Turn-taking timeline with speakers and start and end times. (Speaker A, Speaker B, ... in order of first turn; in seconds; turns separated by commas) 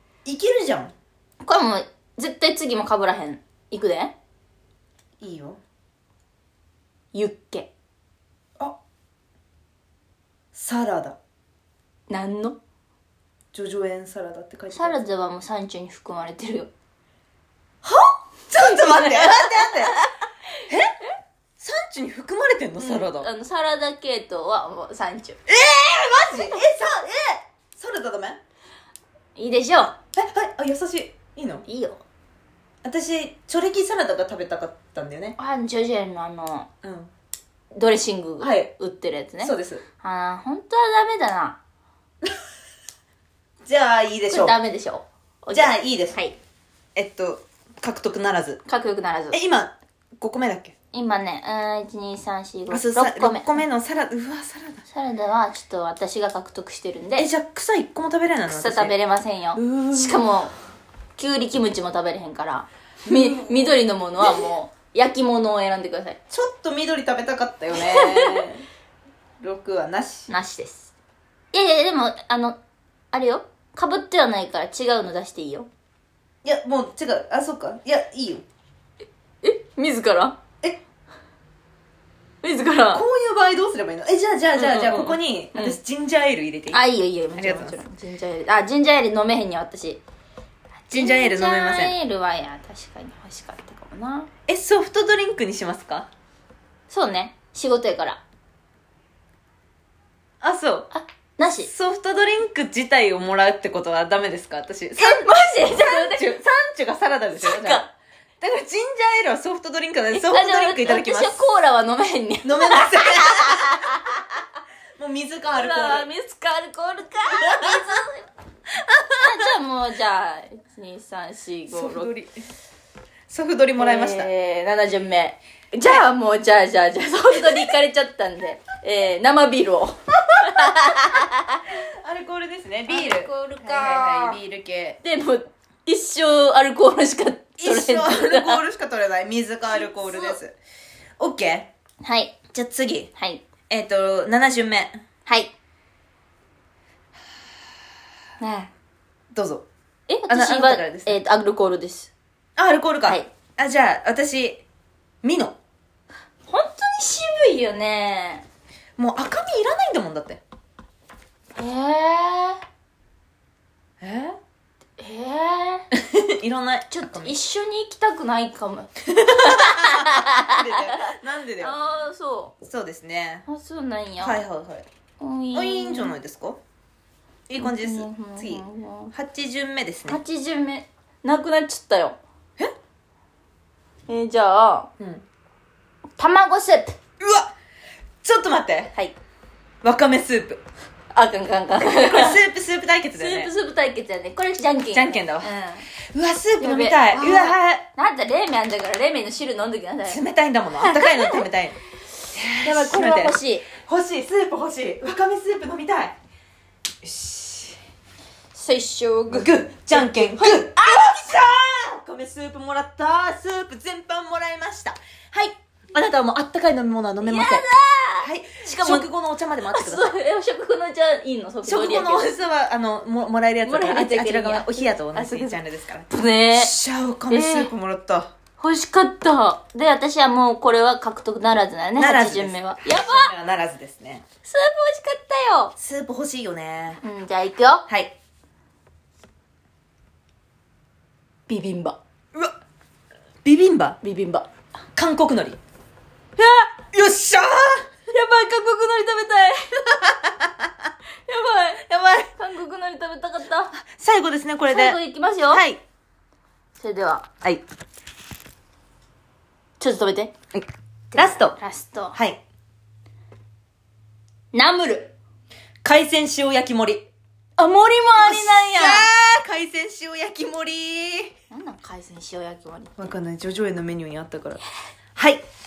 Speaker A: 0.2-0.9, Speaker B: 1.4-4.1, Speaker A: 5.2-5.6, Speaker B: 7.1-7.7, Speaker A: 10.5-11.2, Speaker B: 12.1-12.6, Speaker A: 13.5-15.0, Speaker B: 14.7-16.7, Speaker B: 17.8-20.2, Speaker A: 18.5-19.9, Speaker A: 20.7-21.0, Speaker A: 21.6-23.3, Speaker B: 22.8-25.4, Speaker A: 25.5-28.4, Speaker B: 26.3-26.6, Speaker B: 29.4-29.9, Speaker A: 30.1-31.6, Speaker B: 31.6-32.0, Speaker A: 32.8-35.4, Speaker B: 35.4-36.7, Speaker A: 36.8-37.1, Speaker B: 37.7-41.6, Speaker A: 38.4-38.7, Speaker A: 39.4-39.8, Speaker A: 43.6-44.6, Speaker B: 44.3-46.4, Speaker A: 45.5-46.2, Speaker A: 46.9-48.6, Speaker B: 48.6-49.4, Speaker A: 49.3-50.7, Speaker B: 50.9-53.6, Speaker A: 52.7-54.8, Speaker B: 54.9-57.3, Speaker A: 57.2-58.9, Speaker B: 58.5-60.5, Speaker A: 59.5-60.2, Speaker B: 61.2-66.2, Speaker A: 63.1-63.7, Speaker A: 66.3-68.6, Speaker B: 67.7-68.5, Speaker A: 69.4-70.3, Speaker B: 70.3-70.9, Speaker B: 71.5-72.6, Speaker B: 73.1-75.7, Speaker A: 76.4-78.4, Speaker B: 79.4-80.4, Speaker B: 82.4-83.0, Speaker A: 82.9-86.8, Speaker B: 84.5-85.8, Speaker B: 86.7-90.0, Speaker A: 87.3-87.8, Speaker B: 90.9-94.3, Speaker A: 90.9-92.0, Speaker A: 94.5-96.1, Speaker B: 96.9-98.2, Speaker A: 100.4-100.9, Speaker B: 100.9-101.7, Speaker A: 101.6-107.8, Speaker B: 105.0-106.4, Speaker B: 107.3-107.9, Speaker A: 108.4-111.4, Speaker B: 110.1-114.2, Speaker A: 112.4-113.9, Speaker A: 115.0-116.1, Speaker B: 115.5-118.3, Speaker A: 117.3-117.9, Speaker A: 118.8-119.5, Speaker B: 119.2-122.1, Speaker A: 121.7-122.5, Speaker A: 123.3-124.3, Speaker B: 123.8-131.6, Speaker A: 131.7-135.0, Speaker B: 132.9-134.4, Speaker B: 135.0-138.6, Speaker A: 137.6-140.5, Speaker B: 140.0-140.4, Speaker A: 141.2-141.7, Speaker B: 142.0-142.4, Speaker A: 142.5-143.1, Speaker B: 143.1-143.4, Speaker A: 143.7-145.0, Speaker B: 145.2-145.5, Speaker B: 148.4-148.7, Speaker A: 149.3-149.6, Speaker B: 150.1-152.1, Speaker A: 150.3-151.2, Speaker A: 152.6-154.6, Speaker A: 155.2-155.6, Speaker B: 156.5-158.4, Speaker A: 159.0-160.4, Speaker B: 161.5-162.6, Speaker A: 164.0-164.4, Speaker B: 165.0-165.8, Speaker A: 165.9-167.3, Speaker B: 166.9-172.5, Speaker A: 169.1-171.7, Speaker A: 172.6-173.4, Speaker B: 173.5-174.4, Speaker A: 174.2-174.8, Speaker B: 175.2-176.1, Speaker A: 175.5-176.6, Speaker A: 177.5-180.2, Speaker B: 177.6-179.1, Speaker B: 180.1-182.2, Speaker B: 184.1-184.9, Speaker A: 185.0-185.2, Speaker B: 186.2-186.9, Speaker A: 187.2-187.5, Speaker A: 188.2-188.9, Speaker A: 189.8-190.6, Speaker B: 191.1-192.4, Speaker A: 191.8-193.5, Speaker B: 193.1-195.9, Speaker A: 194.9-195.5, Speaker A: 196.1-197.9, Speaker B: 196.6-200.2, Speaker A: 200.0-201.8, Speaker B: 200.8-201.4, Speaker A: 202.3-206.2, Speaker B: 202.4-203.7, Speaker A: 207.0-207.8, Speaker B: 208.5-211.3, Speaker A: 209.3-217.6, Speaker B: 217.2-219.1, Speaker A: 218.2-220.2, Speaker B: 219.7-222.3, Speaker A: 221.6-228.3, Speaker B: 223.6-226.7, Speaker B: 227.3-227.7, Speaker B: 228.6-233.3, Speaker A: 232.0-234.2, Speaker B: 234.4-235.7, Speaker A: 235.8-237.0, Speaker B: 237.0-237.8, Speaker A: 237.9-238.1, Speaker B: 241.5-242.0, Speaker A: 243.4-244.0, Speaker B: 244.0-244.4, Speaker A: 244.9-245.6, Speaker A: 246.4-247.9, Speaker B: 248.1-250.0, Speaker A: 250.1-250.7, Speaker B: 251.3-251.8, Speaker A: 251.9-252.3, Speaker B: 252.4-253.7, Speaker A: 253.9-255.8, Speaker B: 254.7-255.6, Speaker B: 256.8-257.3, Speaker B: 259.8-260.3, Speaker A: 260.5-261.6, Speaker B: 261.1-262.2, Speaker A: 262.1-262.4, Speaker B: 264.5-265.1, Speaker A: 265.8-267.1, Speaker B: 267.6-269.1, Speaker A: 268.1-271.3, Speaker B: 271.5-273.1, Speaker A: 273.0-274.6, Speaker A: 275.1-275.4